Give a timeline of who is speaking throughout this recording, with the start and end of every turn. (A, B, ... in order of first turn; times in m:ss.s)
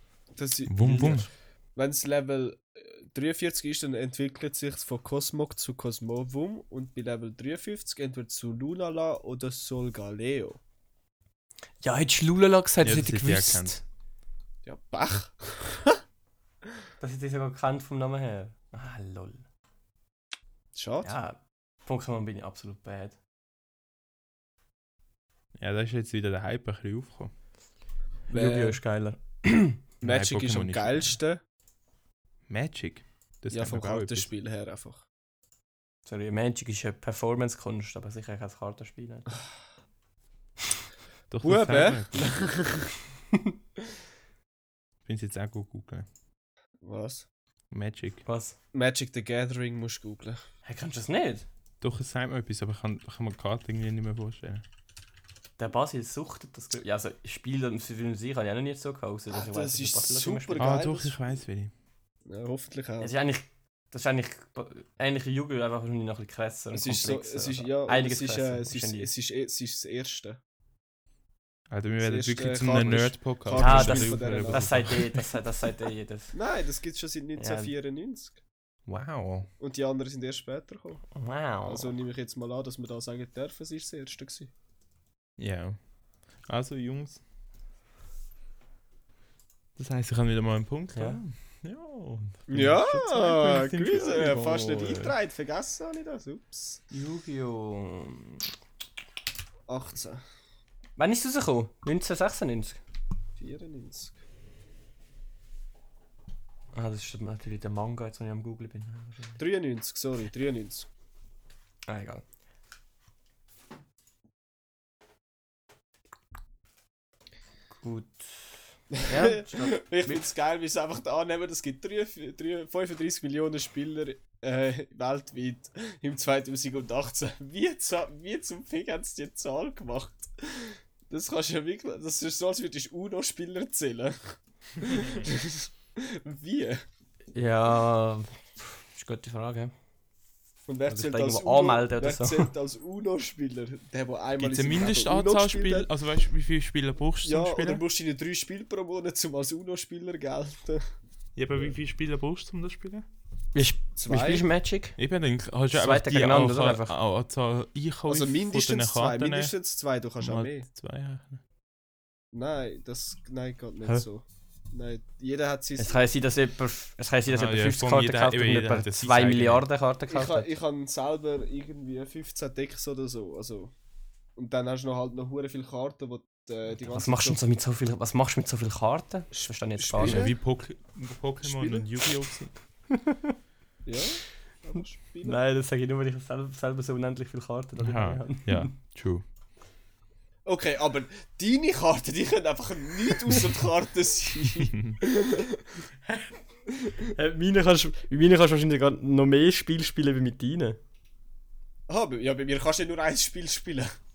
0:00.4-0:10.6 A
0:00.7-0:01.3 B
0:00.8-0:01.1 C
0:11.8-0:13.8 C
0:12.8-0:13.8 B
0:14.6-0:16.0 A
0:17.0-0:19.4 C
0:20.7-0:21.1 A
0:21.0-0:23.2 C
0:25.6-0:27.3 B
0:28.3-0:29.8 C
0:28.3-0:28.8 A
0:30.0-0:31.2 B
0:30.0-0:31.4 A
0:32.5-0:34.3 B
0:33.5-0:35.0 A
0:36.0-0:39.3 C
0:41.3-0:42.3 B
0:41.4-0:42.9 A
0:45.0-0:46.1 B
0:46.8-0:47.2 A
0:47.7-0:48.2 B
0:48.2-0:48.6 C
0:48.7-0:50.4 A
0:50.6-0:51.5 C
0:51.8-0:54.6 B
0:55.6-1:00.7 C
0:59.3-1:01.2 A
1:00.6-1:01.7 B
1:02.2-1:03.1 A
1:03.0-1:09.1 C
1:06.7-1:10.4 A
1:11.7-1:15.1 B
1:12.0-1:14.9 A
1:13.5-1:16.3 C
1:16.3-1:18.4 A
1:17.4-1:17.7 C
1:18.9-1:19.5 B
1:19.6-1:21.0 A
1:21.1-1:21.9 C
1:21.6-1:24.5 A
1:25.4-1:25.8 B
1:26.4-1:27.2 B
1:29.8-1:35.1 B
1:30.9-1:31.2 C
1:32.5-1:36.8 A
1:36.9-1:38.4 C
1:39.7-1:40.2 A
1:41.0-1:42.8 C
1:43.4-1:44.2 A
1:46.7-1:49.4 C
1:49.4-1:50.9 A
1:51.9-1:52.2 C
1:57.8-2:00.2 C
1:59.0-2:16.8 A
2:17.3-2:19.7 C
2:20.7-2:25.9 A
2:20.9-2:22.5 C
2:24.4-2:27.8 B
2:27.2-2:30.8 A
2:31.4-2:33.0 B
2:33.5-2:35.0 C
2:34.0-2:34.4 A
2:35.0-2:39.5 B
2:35.7-2:36.9 C
2:38.1-2:40.6 A
2:40.2-2:41.4 B
2:42.3-2:46.0 A
2:45.8-2:50.5 C
2:47.3-2:49.6 B
2:50.1-2:53.7 A
2:54.4-2:57.4 A
2:56.9-3:00.3 C
2:59.3-3:00.3 A
3:00.0-3:02.5 B
3:01.4-3:01.8 A
3:02.9-3:03.4 C
3:03.8-3:05.4 A
3:05.2-3:08.7 C
3:07.8-3:09.2 B
3:10.4-3:15.7 A
3:14.7-3:15.0 B
3:17.0-3:20.8 C
3:21.9-3:23.9 A